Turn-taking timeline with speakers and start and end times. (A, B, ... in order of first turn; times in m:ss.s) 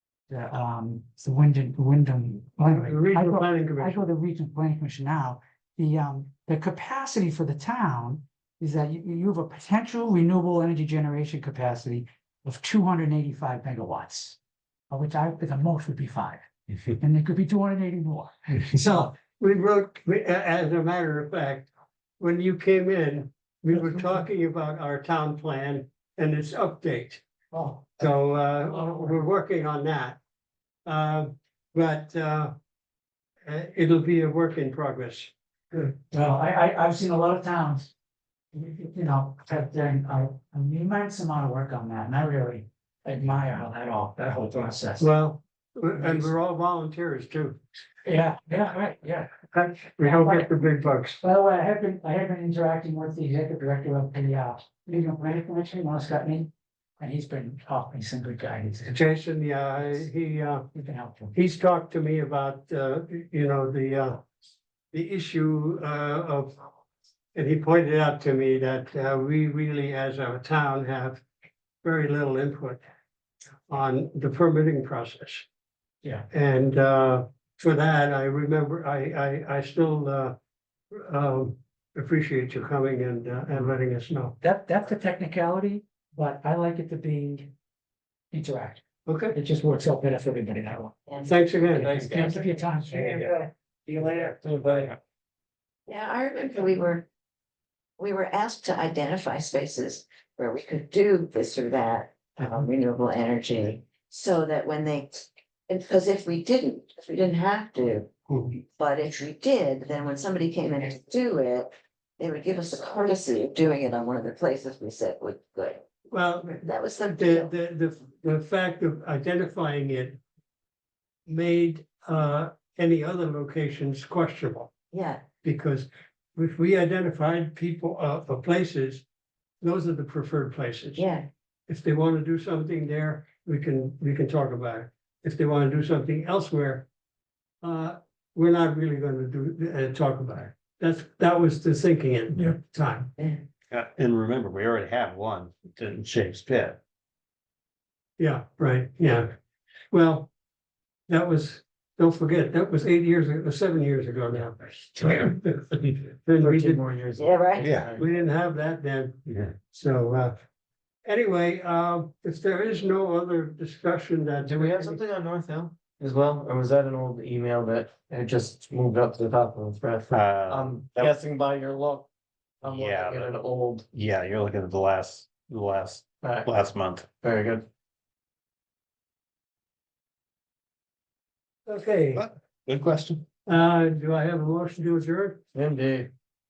0:00.3-0:14.4 A
0:02.7-0:04.1 B
0:14.9-0:18.4 A
0:18.6-0:21.7 B
0:22.2-0:27.2 B
0:27.5-0:27.9 A
0:28.0-0:30.2 B
0:28.8-0:29.1 A
0:30.9-0:32.5 B
0:33.4-0:35.8 B
0:35.9-0:37.9 A
0:38.5-0:45.1 A
0:45.0-0:47.6 B
0:46.0-0:46.3 A
0:48.0-0:50.5 A
0:49.5-0:51.2 B
0:51.2-0:59.0 A
0:58.9-1:00.7 B
1:00.7-1:01.3 A
1:01.3-1:04.2 B
1:04.9-1:06.6 B
1:07.4-1:11.2 B
1:11.8-1:12.8 B
1:13.7-1:15.5 B
1:16.3-1:20.4 B
1:20.9-1:24.3 B
1:24.4-1:27.5 A
1:28.3-1:31.0 A
1:29.1-1:29.4 B
1:31.1-1:31.4 C
1:31.2-1:32.0 B
1:31.8-1:34.4 A
1:34.4-1:35.0 D
1:35.9-1:37.1 C
1:38.0-1:48.1 C
1:48.3-1:48.6 B
1:48.8-1:55.8 C
1:56.1-2:00.2 B
1:56.6-1:57.5 C
2:01.3-2:04.7 B
2:04.9-2:05.2 C
2:05.4-2:09.0 B
2:09.6-2:11.1 B
2:11.0-2:11.3 C
2:11.7-2:16.9 B
2:17.6-2:23.1 B
2:23.7-2:26.8 E
2:28.2-2:29.3 B
2:29.9-2:30.3 B
2:31.1-2:36.8 B
2:36.4-2:38.0 D
2:37.2-2:37.8 C
2:37.6-2:37.9 E
2:37.8-2:40.4 B
2:41.0-2:45.0 B
2:44.4-2:52.1 D
2:50.1-2:51.2 E
2:52.6-2:53.9 D
2:52.6-2:53.3 E
2:53.9-2:57.1 E
2:56.2-2:57.7 D
3:01.7-3:02.3 B
3:02.1-3:03.2 E
3:03.5-3:05.4 B
3:05.6-3:06.1 D